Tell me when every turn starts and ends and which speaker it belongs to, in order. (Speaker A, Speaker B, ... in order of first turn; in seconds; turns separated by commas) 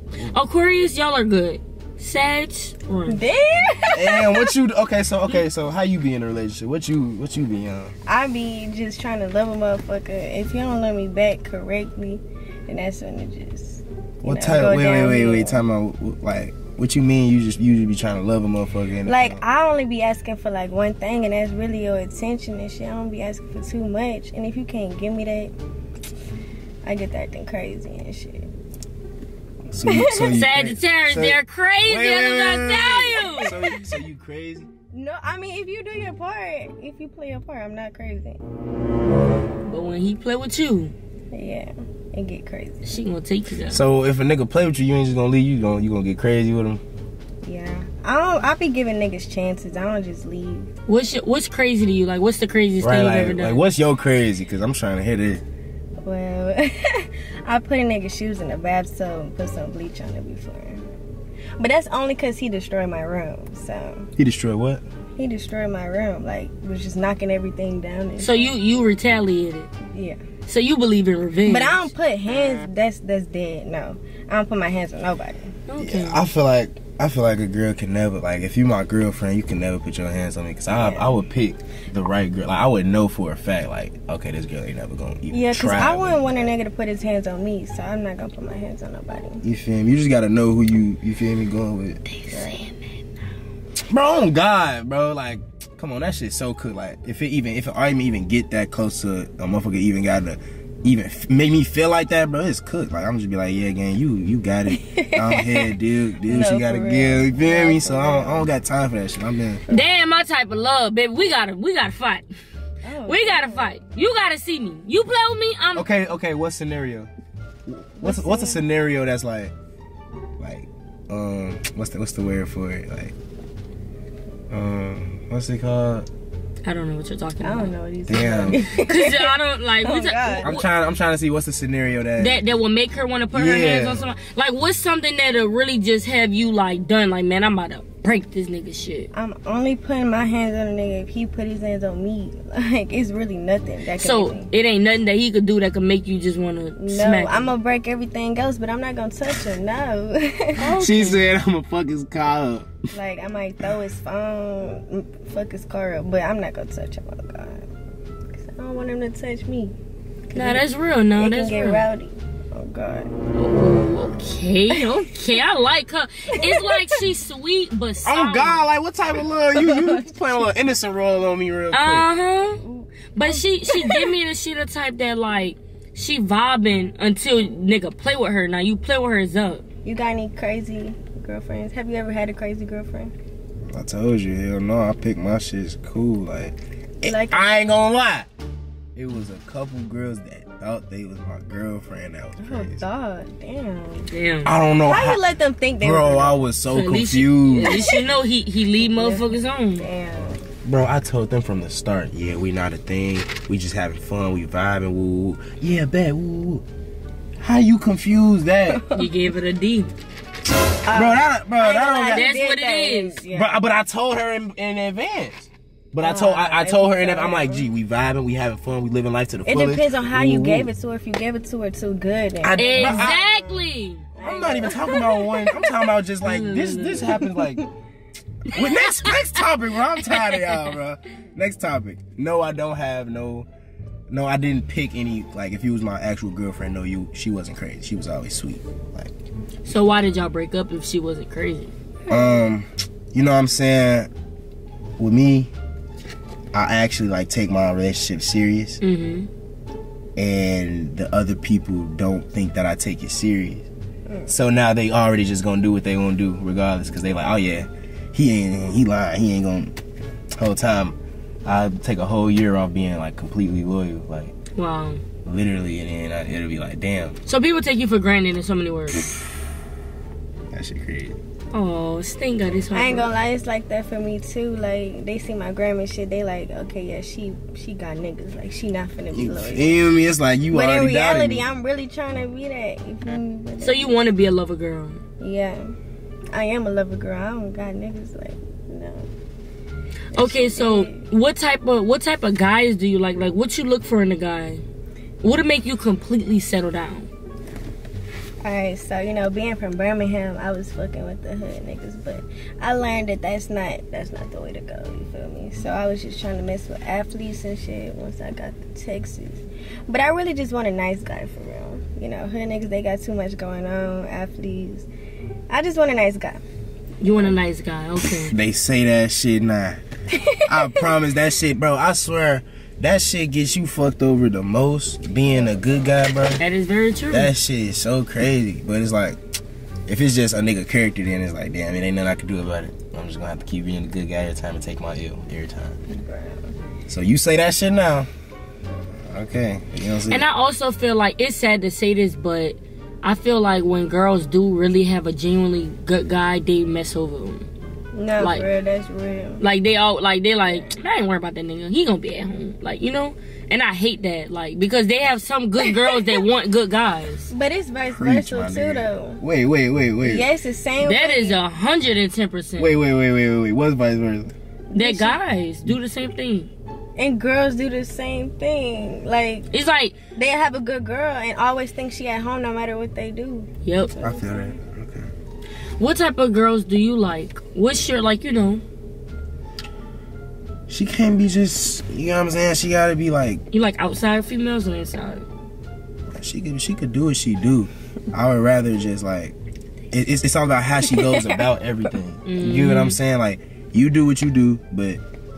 Speaker A: 0.3-3.2, Speaker B: 3.1-4.5, Speaker C: 3.9-7.9, Speaker B: 8.1-15.6, Speaker C: 14.2-19.4, Speaker B: 19.1-25.5, Speaker B: 26.8-28.5, Speaker C: 29.7-34.7, Speaker B: 29.8-30.4, Speaker A: 30.1-33.6, Speaker B: 34.9-38.4, Speaker A: 39.6-40.9, Speaker B: 41.3-42.9, Speaker A: 42.8-43.8, Speaker C: 43.7-46.8, Speaker B: 47.4-50.7, Speaker A: 50.9-53.6, Speaker C: 52.8-55.4, Speaker B: 56.0-60.8, Speaker B: 61.6-64.1, Speaker C: 64.2-64.8, Speaker B: 65.2-68.6, Speaker A: 68.2-69.7, Speaker B: 69.8-70.2, Speaker A: 70.5-71.9, Speaker B: 71.5-75.5, Speaker A: 75.7-76.2, Speaker C: 75.8-86.2, Speaker B: 80.7-81.2, Speaker B: 85.3-89.4, Speaker C: 89.4-92.0, Speaker B: 92.3-92.7, Speaker C: 93.9-109.6, Speaker B: 104.7-108.5, Speaker A: 109.7-112.2, Speaker B: 112.8-113.8, Speaker A: 113.0-115.9, Speaker C: 115.7-117.1, Speaker C: 117.7-119.5, Speaker B: 118.0-118.6, Speaker C: 120.4-123.1, Speaker C: 124.5-126.1, Speaker A: 126.6-127.7, Speaker B: 127.4-130.5, Speaker C: 128.1-128.7, Speaker A: 128.5-130.6, Speaker C: 130.4-132.4, Speaker A: 132.2-139.1, Speaker C: 133.3-134.0, Speaker B: 139.1-144.5, Speaker A: 144.0-147.5, Speaker B: 146.8-150.7, Speaker A: 150.6-151.2, Speaker C: 150.7-152.7, Speaker B: 152.9-157.7, Speaker B: 158.3-159.7, Speaker B: 160.3-160.6, Speaker A: 160.3-161.9, Speaker B: 161.2-163.1, Speaker A: 163.3-168.6, Speaker B: 164.7-165.1, Speaker B: 166.3-167.0, Speaker C: 168.0-172.1, Speaker B: 169.5-170.1, Speaker A: 171.7-172.6, Speaker B: 172.6-174.1, Speaker A: 173.1-179.6, Speaker B: 179.8-183.1, Speaker C: 183.7-188.3, Speaker B: 187.0-187.4, Speaker C: 188.9-192.8, Speaker B: 192.4-194.1, Speaker A: 194.1-194.5, Speaker C: 194.4-195.2, Speaker B: 194.8-196.4, Speaker C: 195.8-197.9, Speaker A: 196.7-199.8, Speaker B: 197.6-198.0, Speaker B: 198.8-200.4, Speaker C: 200.6-206.6, Speaker C: 207.4-208.9, Speaker B: 208.7-209.1, Speaker A: 208.9-209.9, Speaker B: 210.8-213.6, Speaker C: 210.9-212.3, Speaker A: 212.1-213.2, Speaker C: 213.3-220.7, Speaker B: 216.0-217.7, Speaker B: 219.4-223.2, Speaker C: 222.4-223.2, Speaker A: 222.6-225.1, Speaker B: 224.1-225.2, Speaker C: 224.2-227.6, Speaker A: 226.2-227.3, Speaker B: 227.1-227.7, Speaker C: 228.5-233.5, Speaker A: 228.5-229.1, Speaker A: 230.1-230.5, Speaker C: 234.1-239.1, Speaker A: 239.7-241.7, Speaker B: 242.1-242.4, Speaker C: 242.1-244.1, Speaker C: 245.0-245.5, Speaker C: 246.5-248.8, Speaker A: 248.8-249.3, Speaker C: 250.2-253.7, Speaker B: 254.1-254.3, Speaker C: 254.3-259.8, Speaker C: 260.4-264.3, Speaker A: 264.6-265.0, Speaker C: 265.2-267.2, Speaker A: 267.3-269.1, Speaker C: 270.5-271.2, Speaker A: 271.5-273.1, Speaker B: 272.7-279.8, Speaker C: 279.1-281.4, Speaker B: 280.5-284.1, Speaker A: 283.6-285.0, Speaker B: 285.2-285.7, Speaker B: 286.3-289.1, Speaker B: 290.1-291.0, Speaker A: 290.1-294.6, Speaker A: 295.2-297.1, Speaker B: 298.4-314.9, Speaker B: 315.5-316.4, Speaker A: 317.0-318.3, Speaker C: 318.1-319.8, Speaker B: 320.1-320.9, Speaker C: 320.4-326.4, Speaker A: 326.4-327.3, Speaker C: 327.1-329.2, Speaker C: 329.9-335.8, Speaker B: 335.9-336.6, Speaker C: 336.9-338.1, Speaker C: 339.1-340.2, Speaker A: 340.1-347.4, Speaker B: 347.9-349.4, Speaker A: 348.2-348.4, Speaker A: 349.4-357.3, Speaker B: 355.6-356.1, Speaker B: 357.3-359.2, Speaker C: 357.9-360.2, Speaker B: 360.0-361.4, Speaker A: 360.8-362.7, Speaker C: 362.6-364.3, Speaker B: 364.7-365.2, Speaker A: 364.7-366.5, Speaker B: 367.0-369.5, Speaker A: 369.5-369.9, Speaker B: 370.1-374.6, Speaker A: 373.6-373.9, Speaker C: 374.0-375.1, Speaker A: 375.8-378.6, Speaker C: 380.7-383.4, Speaker A: 383.5-385.2, Speaker C: 386.1-389.3, Speaker C: 389.9-395.0, Speaker B: 390.9-391.4, Speaker A: 392.2-393.0